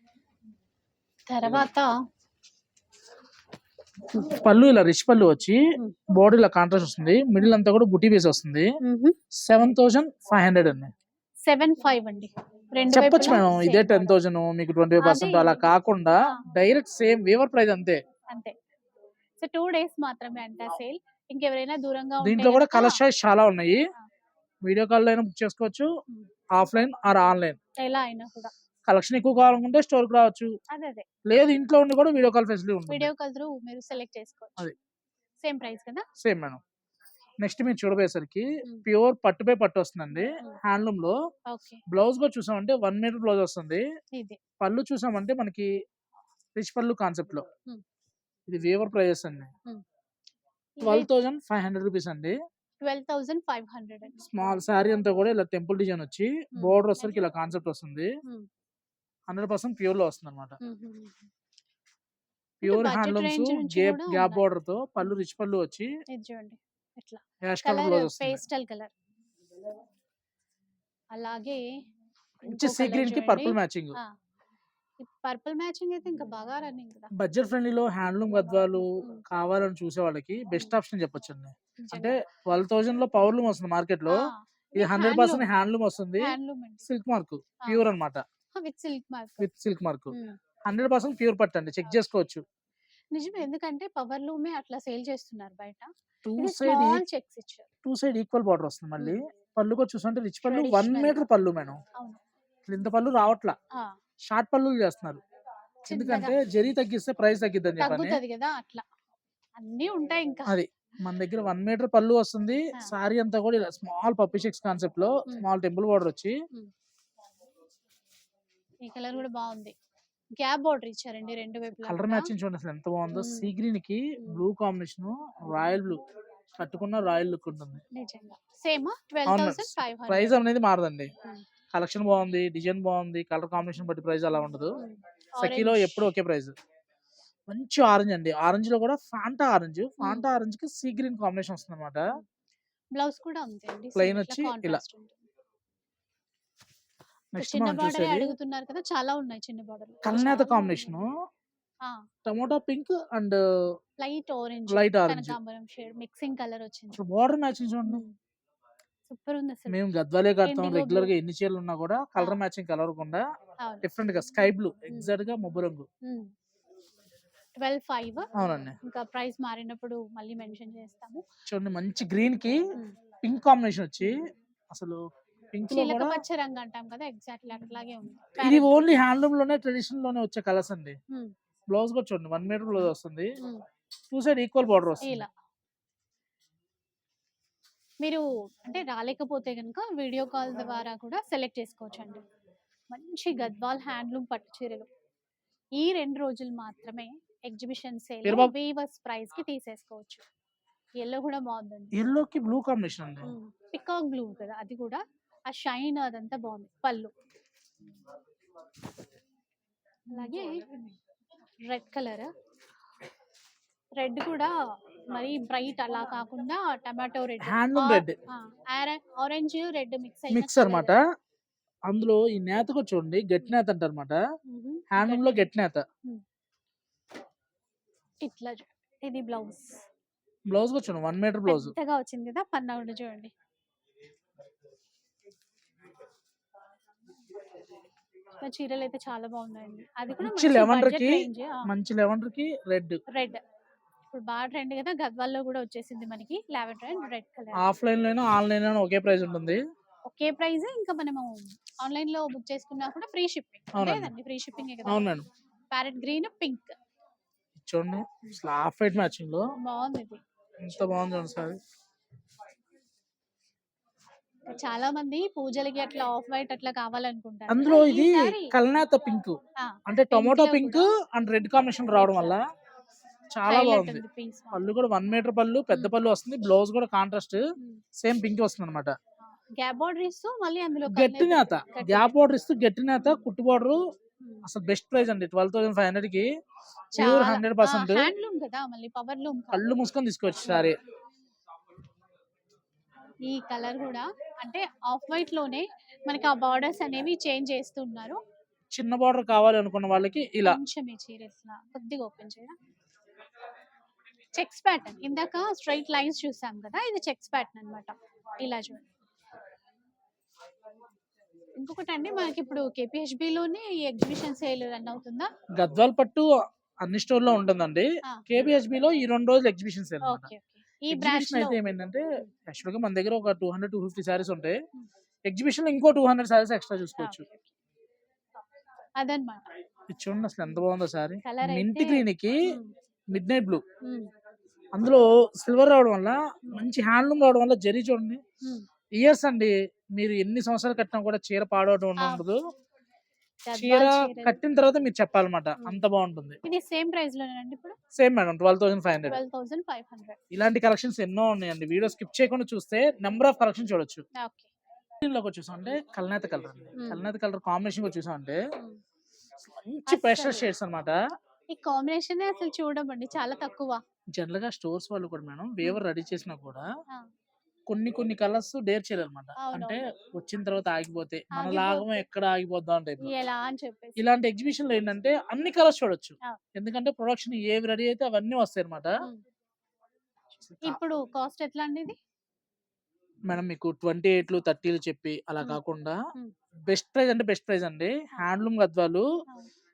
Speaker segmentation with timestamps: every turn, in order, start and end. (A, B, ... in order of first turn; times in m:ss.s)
0:01.3-0:01.9 A
0:04.2-0:05.6 B
0:06.1-0:08.7 B
0:08.8-0:09.2 A
0:09.5-0:10.9 B
0:11.5-0:14.2 A
0:12.9-0:18.0 B
0:15.0-0:15.7 A
0:19.4-0:23.0 A
0:22.2-0:23.8 B
0:24.6-0:25.9 B
0:26.5-0:27.6 B
0:27.8-0:28.5 A
0:28.9-0:30.5 B
0:30.7-0:31.0 A
0:31.3-0:33.1 B
0:32.9-0:34.7 A
0:35.4-0:36.1 A
0:36.2-0:36.6 B
0:37.4-0:41.2 B
0:40.2-0:40.6 A
0:41.5-0:41.8 A
0:41.9-0:43.8 B
0:44.1-0:44.4 A
0:44.6-0:45.7 B
0:46.6-0:47.4 B
0:48.5-0:49.5 B
0:50.8-0:51.1 A
0:50.8-0:52.4 B
0:52.8-0:54.3 A
0:54.2-0:58.2 B
0:56.6-0:57.1 A
0:59.3-1:00.6 B
1:00.6-1:01.3 A
1:02.6-1:05.9 B
1:02.6-1:04.4 A
1:06.1-1:08.9 A
1:07.4-1:08.4 B
1:11.1-1:11.6 A
1:12.4-1:14.1 A
1:12.5-1:14.0 B
1:15.0-1:17.1 A
1:17.1-1:28.2 B
1:18.8-1:19.2 A
1:21.8-1:22.2 A
1:24.1-1:25.5 A
1:26.2-1:26.9 A
1:28.6-1:29.5 A
1:29.4-1:30.2 B
1:30.1-1:30.4 A
1:30.7-1:32.4 B
1:33.1-1:37.7 A
1:36.2-1:37.0 B
1:37.8-1:41.8 B
1:40.4-1:41.3 A
1:42.7-1:43.6 B
1:44.3-1:45.2 B
1:45.9-1:46.4 A
1:45.9-1:48.2 B
1:47.8-1:48.8 A
1:49.6-1:50.6 A
1:50.5-1:56.4 B
1:58.8-1:59.8 A
2:00.4-2:02.3 A
2:01.8-2:06.0 B
2:03.1-2:03.5 A
2:06.6-2:07.8 B
2:07.9-2:10.4 A
2:09.3-2:11.1 B
2:11.7-2:14.8 B
2:14.8-2:16.0 A
2:15.4-2:16.5 B
2:17.5-2:22.1 B
2:20.0-2:20.3 A
2:23.0-2:25.2 A
2:24.0-2:24.8 B
2:27.3-2:28.4 B
2:27.4-2:31.0 A
2:30.0-2:31.1 B
2:32.3-2:33.4 B
2:34.0-2:37.0 A
2:34.7-2:35.4 B
2:37.0-2:38.0 B
2:37.9-2:38.2 A
2:39.1-2:39.8 A
2:39.7-2:43.2 B
2:40.4-2:41.1 A
2:43.6-2:43.9 A
2:43.8-2:45.8 B
2:46.0-2:46.3 A
2:47.6-2:51.2 A
2:48.4-2:48.8 B
2:51.5-2:52.6 B
2:53.2-2:54.2 B
2:54.7-2:55.0 B
2:55.5-2:56.2 B
2:55.7-2:58.8 A
2:58.4-3:01.0 B
3:01.7-3:03.4 B
3:04.1-3:05.2 B
3:05.0-3:05.3 A
3:08.0-3:12.2 A
3:12.9-3:14.9 A
3:15.8-3:20.2 A
3:18.2-3:18.5 B
3:21.0-3:22.0 A
3:21.9-3:23.3 B
3:23.2-3:27.1 A
3:30.1-3:30.6 A
3:31.7-3:32.3 A
3:34.0-3:34.5 A
3:35.1-3:41.0 A
3:37.4-3:38.2 B
3:40.3-3:41.0 B
3:41.9-3:44.2 B
3:44.5-3:45.5 A
3:44.9-3:45.8 B
3:48.2-3:49.8 A
3:50.5-3:51.7 B
3:51.5-3:53.3 A
3:58.4-4:01.7 A
4:00.2-4:03.0 B
4:03.1-4:03.4 A
4:04.1-4:07.7 A
4:07.6-4:09.6 B
4:10.1-4:15.1 A
4:13.7-4:14.1 B
4:14.9-4:15.3 B
4:15.7-4:16.7 A
4:17.6-4:19.4 B
4:19.6-4:20.2 A
4:20.6-4:21.6 B
4:20.8-4:21.2 A
4:24.5-4:28.6 A
4:27.5-4:29.4 B
4:29.6-4:30.9 A
4:29.9-4:32.4 B
4:31.9-4:32.4 A
4:33.3-4:37.4 B
4:33.4-4:34.7 A
4:37.6-4:37.8 A
4:38.0-4:39.0 B
4:39.6-4:42.2 A
4:40.9-4:43.8 B
4:44.4-4:46.3 B
4:47.0-4:49.7 A
4:47.0-4:48.1 B
4:49.5-4:50.8 B
4:53.3-4:58.2 A
4:58.8-5:00.6 B
5:00.4-5:02.6 A
5:04.4-5:08.9 A
5:11.6-5:15.3 A
5:15.6-5:16.3 B
5:16.8-5:20.3 B
5:20.0-5:21.6 A
5:20.9-5:24.6 B
5:25.3-5:27.2 B
5:27.0-5:27.5 A
5:29.0-5:29.5 A
5:29.9-5:32.4 B
5:31.2-5:32.7 A
5:33.1-5:33.6 B
5:33.8-5:34.1 A
5:34.8-5:38.2 B
5:39.0-5:42.4 B
5:42.0-5:42.3 A
5:43.4-5:44.4 A
5:43.6-5:46.4 B
5:45.6-5:45.8 A
5:46.4-5:47.8 A
5:48.0-5:49.2 B
5:49.1-5:50.2 A
5:50.3-5:54.0 B
5:54.2-5:54.5 A
5:55.0-5:58.4 B
5:56.8-5:57.1 A
5:59.5-6:01.0 B
5:59.9-6:00.5 A
6:01.5-6:03.8 A
6:04.1-6:06.7 B
6:07.7-6:13.1 B
6:09.4-6:09.8 A
6:11.3-6:12.0 A
6:13.0-6:14.0 A
6:14.0-6:18.9 B
6:20.4-6:20.8 B
6:20.6-6:22.0 A
6:23.3-6:26.0 B
6:26.7-6:29.1 B